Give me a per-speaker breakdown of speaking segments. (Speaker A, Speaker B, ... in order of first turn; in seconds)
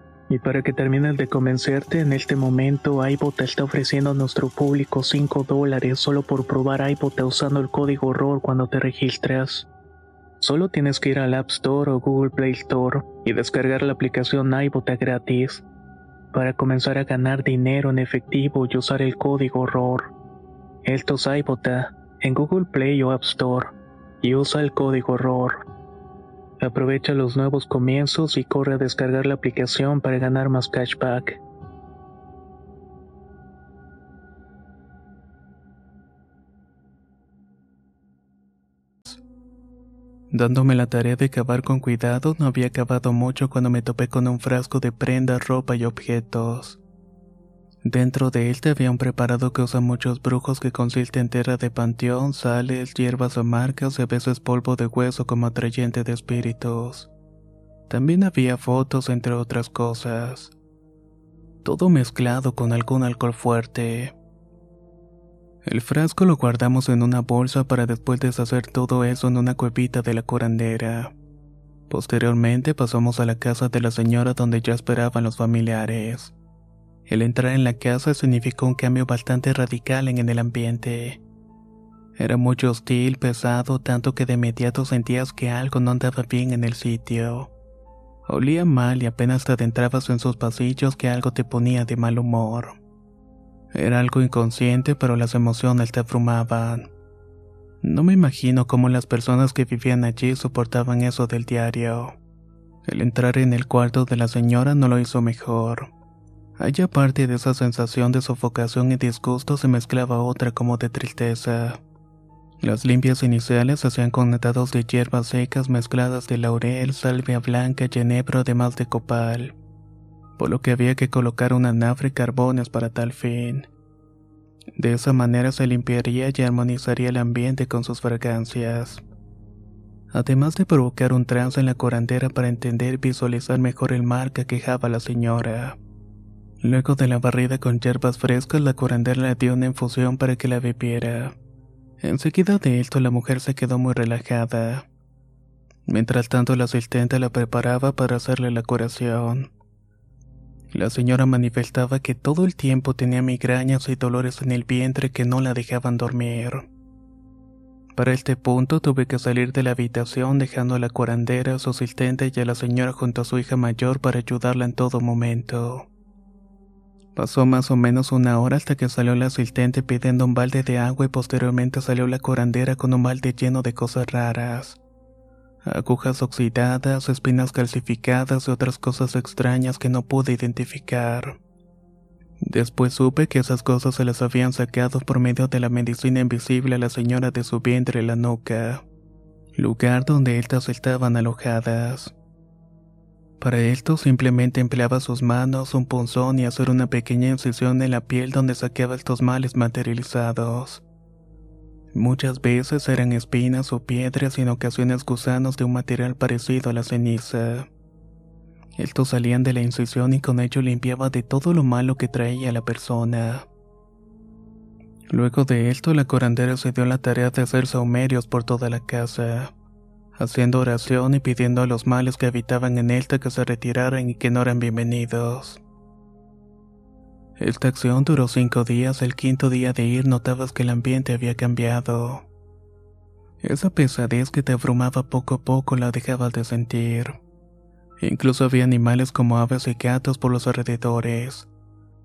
Speaker A: 0.3-9.7, 10.4-15.7, 16.3-20.1, 20.9-25.6, 26.6-31.4, 40.3-46.8, 47.9-57.1, 57.9-60.5, 61.6-64.1, 65.7-71.1, 71.9-76.3, 77.1-81.2, 82.2-87.5, 88.3-92.8, 93.8-96.9, 97.8-102.2, 102.9-105.9, 106.6-111.8, 112.6-119.6, 120.4-123.7, 124.8-129.0, 130.1-135.8, 136.6-141.4, 142.0-144.9, 145.9-149.5, 150.7-156.7, 157.9-165.9, 167.2-174.8, 175.7-181.4, 182.4-188.8, 189.6-192.1, 193.4-200.8, 201.9-207.7, 208.8-213.5, 215.1-219.5, 220.2-225.6, 227.4-232.3, 233.4-237.2, 238.0-241.5